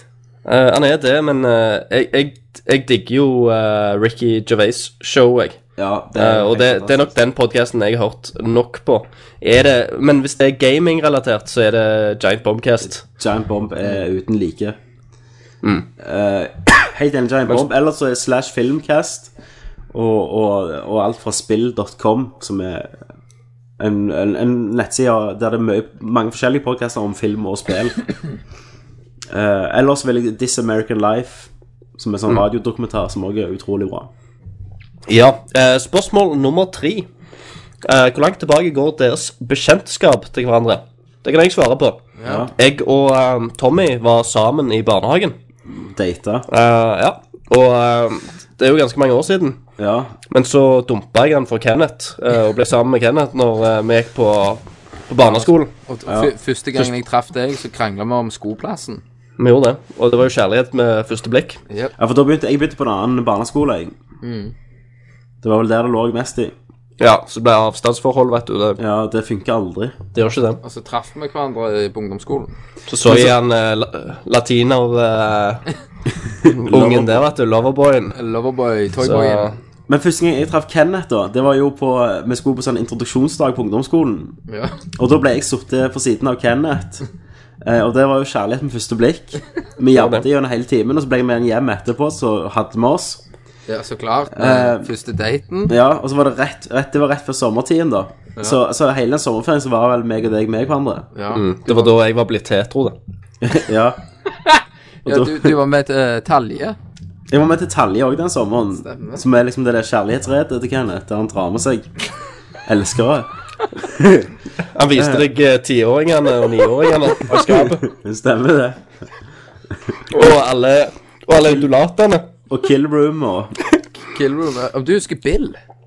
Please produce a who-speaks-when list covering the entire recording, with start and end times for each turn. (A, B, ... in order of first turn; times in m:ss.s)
0:00.4-0:05.6 A
0:05.8-0:07.1 B
0:06.1-0:13.0 A
0:13.0-0:14.8 B
0:15.6-0:15.9 A
0:16.0-0:19.3 B
0:19.9-0:23.0 B
0:23.8-0:28.0 B
0:29.3-0:34.1 B
0:35.1-0:37.1 A
0:37.8-0:45.4 A
0:42.2-0:42.5 C
0:42.2-0:42.5 B
0:45.7-0:46.5 B
0:46.5-0:49.6 A
0:49.8-0:50.1 B
0:50.3-0:55.7 A
0:55.2-0:59.0 C
0:56.1-0:56.3 B
0:59.4-1:01.6 A
1:02.0-1:03.9 B
1:04.2-1:04.5 C
1:05.4-1:06.5 B
1:07.0-1:08.8 A
1:08.8-1:10.0 B
1:10.1-1:10.6 A
1:10.6-1:12.5 C
1:12.9-1:15.6 A
1:13.0-1:13.4 B
1:16.4-1:18.2 A
1:16.4-1:17.3 B
1:18.1-1:19.5 C
1:19.0-1:19.6 A
1:19.9-1:24.4 B
1:24.5-1:24.8 C
1:25.0-1:27.0 B
1:27.6-1:33.2 B
1:29.9-1:30.2 A
1:33.7-1:35.8 C
1:34.3-1:34.9 B
1:35.7-1:41.1 B
1:41.1-1:41.9 C
1:41.3-1:43.0 A
1:43.4-1:44.0 B
1:44.4-1:46.8 C
1:45.0-1:45.6 B
1:47.3-1:51.9 B
1:48.7-1:49.2 C
1:52.6-1:54.3 B
1:54.7-1:57.8 A
1:54.9-1:55.3 B
1:57.3-1:58.8 B
2:00.1-2:02.3 A
2:02.5-2:03.5 B
2:04.0-2:05.6 C